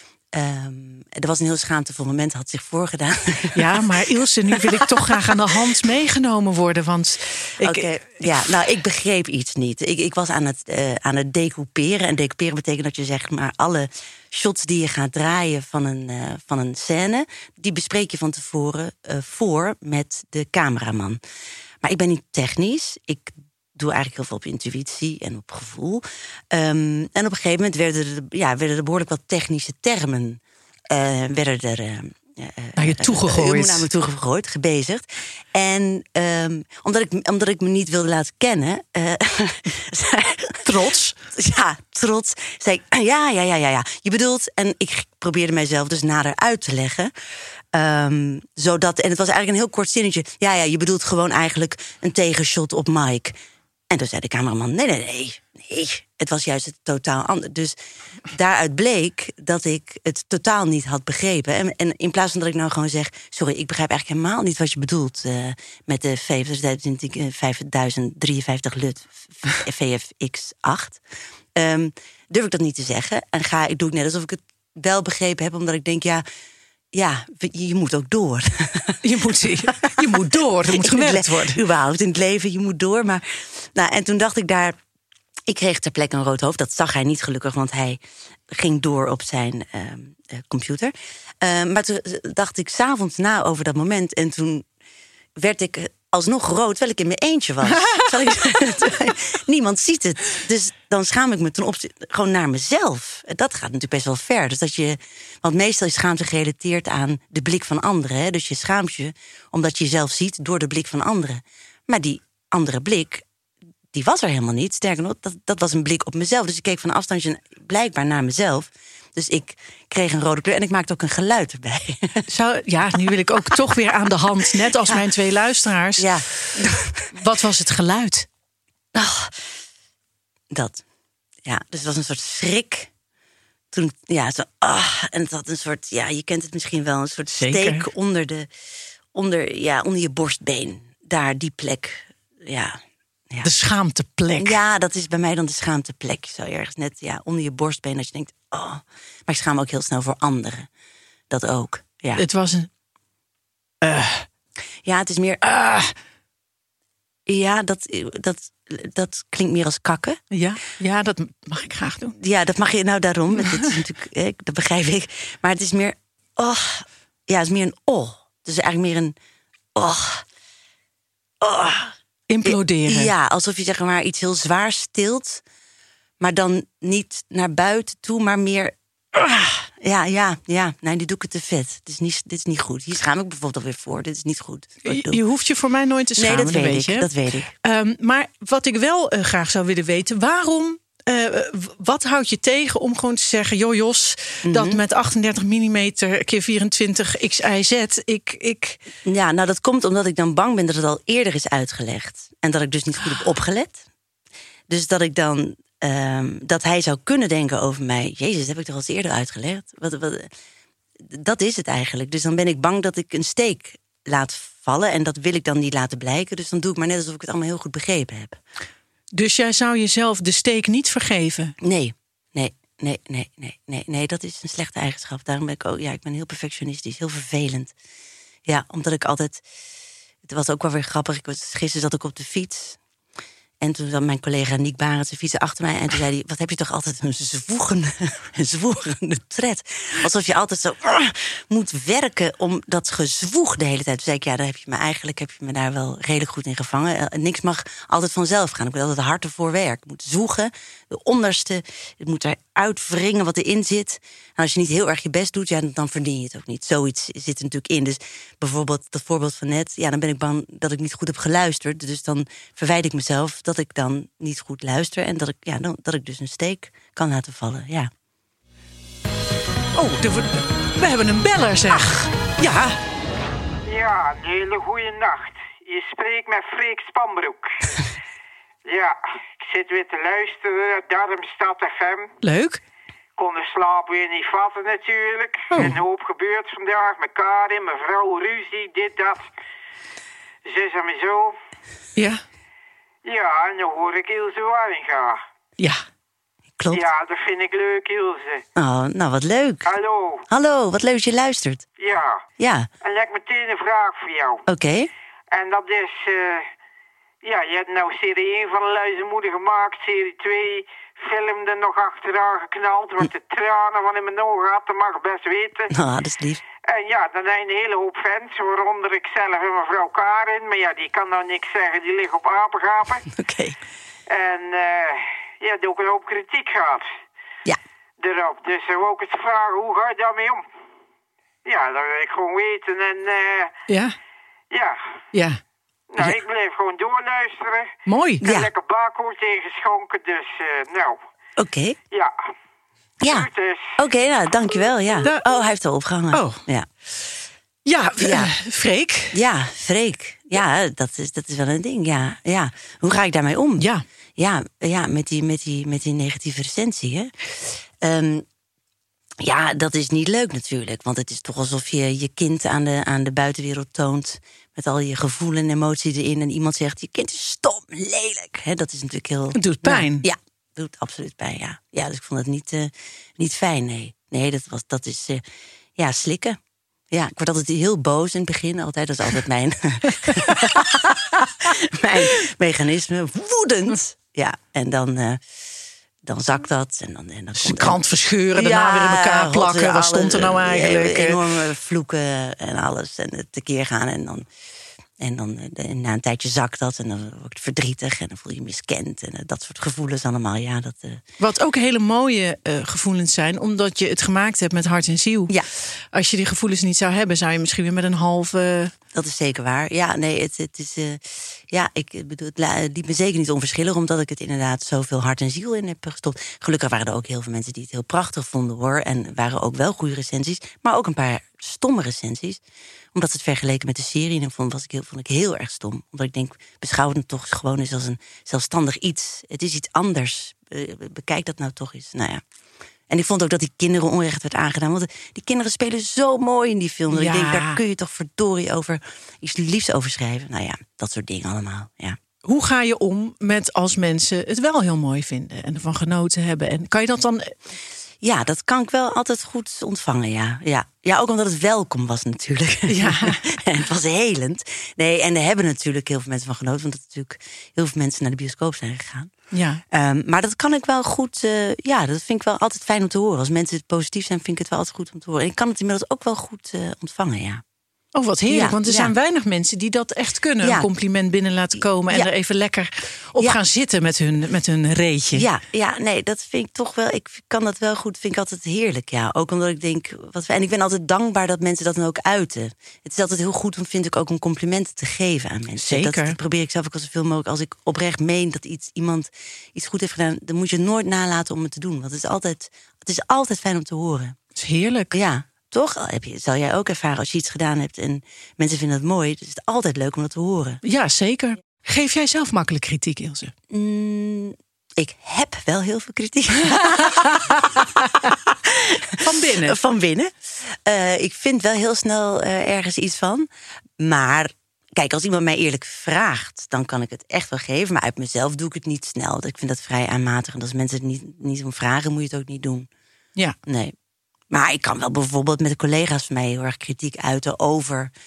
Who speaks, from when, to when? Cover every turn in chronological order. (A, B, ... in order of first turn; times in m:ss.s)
0:00.3-0:03.9 A
0:03.5-0:08.3 B
0:07.6-0:21.2 A
0:21.8-0:40.7 A
0:32.8-0:33.8 B
0:40.6-0:41.2 B
0:41.3-0:47.1 A
0:47.7-0:53.4 A
0:53.9-0:57.8 A
0:58.3-1:11.0 A
1:11.6-1:16.2 A
1:16.9-1:24.8 A
1:19.0-1:21.6 B
1:25.5-1:28.0 A
1:28.5-1:34.6 A
1:35.4-1:53.2 A
1:53.9-2:02.3 A
2:02.3-2:06.6 B
2:06.0-2:07.1 A
2:07.1-2:08.3 B
2:08.9-2:09.6 A
2:10.5-2:10.8 A
2:11.4-2:12.9 A
2:13.7-2:18.5 A
2:17.4-2:17.8 B
2:19.1-2:23.5 A
2:23.4-2:24.6 B
2:24.4-2:30.7 A
2:31.3-2:32.2 A
2:32.2-2:32.7 B
2:33.8-2:34.3 B
2:34.8-2:35.4 A
2:35.4-2:35.9 B
2:37.3-2:40.2 A
2:40.3-2:42.1 B
2:42.2-2:49.1 A
2:49.7-2:50.2 A
2:51.4-2:55.4 A
2:52.3-2:53.1 B
2:56.2-3:05.2 A
3:04.9-3:07.1 B
3:06.2-3:07.5 A
3:07.6-3:18.8 B
3:14.5-3:14.8 A
3:19.0-3:23.8 A
3:24.7-3:30.3 A
3:31.0-3:38.4 A
3:39.1-3:41.5 B
3:41.6-3:47.7 A
3:48.4-3:49.4 A
3:50.2-3:52.8 A
3:53.6-4:27.9 A
4:29.7-4:32.8 B
4:33.6-4:37.6 C
4:38.6-4:42.1 C
4:42.2-4:42.6 B
4:43.2-4:49.3 C
4:45.5-4:45.8 B
4:50.4-4:51.4 C
4:52.0-4:52.2 B
4:53.0-4:55.2 C
4:56.6-4:56.8 A
4:56.7-4:58.4 C
4:58.6-4:59.7 A
4:59.6-5:00.2 C
5:00.3-5:01.7 A
5:01.8-5:02.2 C
5:02.4-5:02.7 A
5:02.8-5:04.4 C
5:04.5-5:04.9 A
5:05.3-5:06.5 C
5:07.2-5:15.7 C
5:15.7-5:16.4 A
5:16.6-5:23.0 C
5:23.2-5:23.6 A
5:24.1-5:26.9 C
5:28.0-5:30.4 C
5:31.4-5:33.5 C
5:33.7-5:33.9 B
5:34.5-5:34.8 C
5:35.1-5:35.4 B
5:35.9-5:37.7 C
5:37.9-5:38.2 B
5:38.2-5:38.5 A
5:38.2-5:41.0 C
5:41.4-5:41.8 A
5:43.0-5:43.8 C
5:43.0-5:46.7 A
5:46.1-5:47.0 B
5:47.6-5:49.2 B
5:48.0-5:48.3 A
5:49.1-5:58.2 A
5:53.6-5:53.8 B
5:59.2-6:15.2 A
6:09.4-6:10.0 B
6:15.8-6:16.4 A
6:16.9-6:25.2 A
6:20.1-6:20.5 B
6:26.0-6:27.8 A
6:27.4-6:31.2 B
6:28.3-6:34.2 A
6:35.0-6:41.0 A
6:41.2-6:45.3 B
6:45.9-6:48.7 B
6:48.9-7:02.4 A
7:02.9-7:12.2 A
7:12.9-7:22.0 A
7:16.9-7:17.6 B
7:22.2-7:27.3 B
7:28.0-7:39.1 A
7:32.7-7:33.2 B
7:39.3-7:39.6 B
7:39.7-7:47.4 A
7:47.9-7:55.2 B
7:48.3-7:48.9 A
7:50.4-7:50.7 A
7:55.1-8:14.2 A
8:05.6-8:06.2 B
8:14.4-8:14.9 B
8:14.9-8:20.6 A
8:20.6-8:23.3 B
8:23.5-8:27.6 A
8:26.6-8:27.4 B
8:28.5-8:28.8 A
8:29.0-8:29.6 B
8:29.4-8:33.3 A
8:33.8-8:42.7 A
8:43.5-8:43.7 A
8:44.3-8:47.9 A